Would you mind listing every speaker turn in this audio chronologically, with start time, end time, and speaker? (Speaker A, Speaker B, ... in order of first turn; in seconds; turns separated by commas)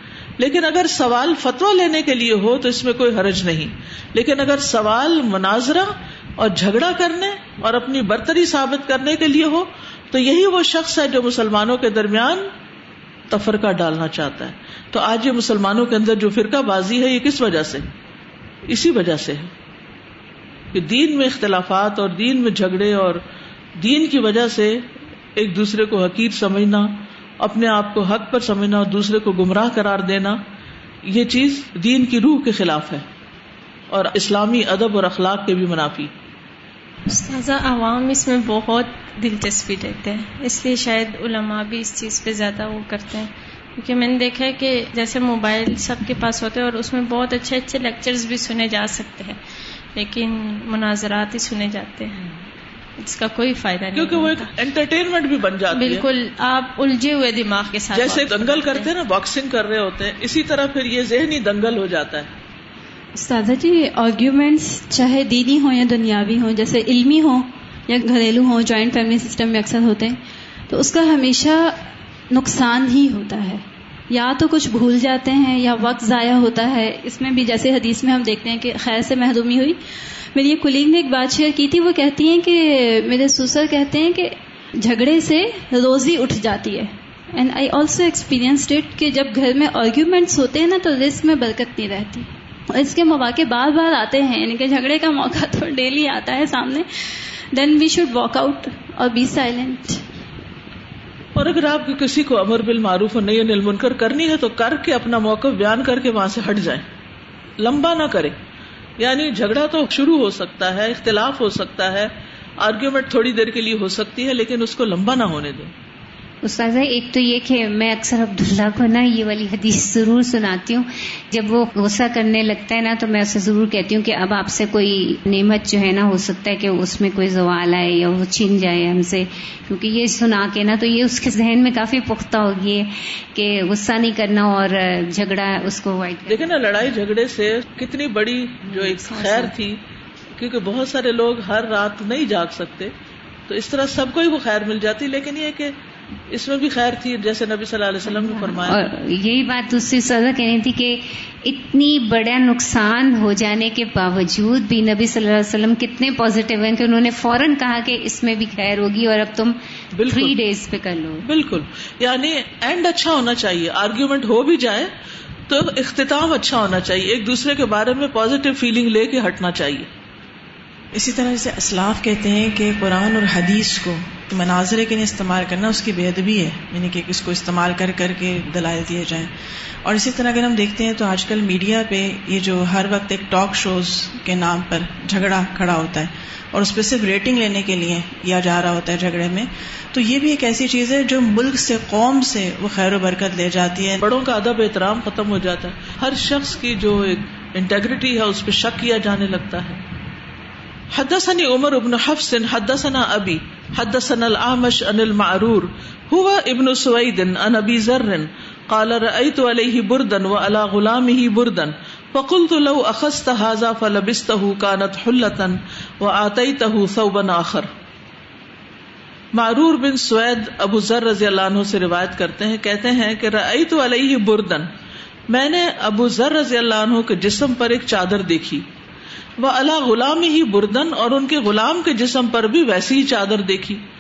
Speaker A: 0.4-12.5, Speaker A: 13.3-17.9, Speaker A: 18.7-19.5, Speaker A: 20.7-23.2, Speaker A: 23.8-30.4, Speaker A: 31.1-33.0, Speaker A: 33.9-36.1, Speaker B: 37.1-49.4, Speaker B: 50.0-52.2, Speaker B: 53.0-54.5, Speaker A: 54.0-56.0, Speaker B: 55.7-58.9, Speaker A: 57.9-62.3, Speaker C: 63.1-71.8, Speaker C: 72.3-79.8, Speaker C: 80.3-96.9, Speaker C: 97.5-100.0, Speaker A: 101.4-106.8, Speaker A: 107.6-108.3, Speaker A: 109.0-115.7, Speaker D: 116.4-136.4, Speaker A: 136.3-139.8, Speaker D: 138.8-139.5, Speaker A: 140.4-142.9, Speaker A: 143.5-145.8, Speaker A: 146.3-148.8, Speaker D: 148.1-161.2, Speaker A: 159.9-160.3, Speaker A: 161.2-164.9, Speaker A: 165.5-169.9, Speaker E: 170.9-179.3, Speaker E: 179.8-194.0, Speaker A: 194.0-199.8, Speaker A: 200.9-217.7, Speaker A: 219.3-224.7, Speaker A: 225.3-228.7, Speaker A: 229.4-233.8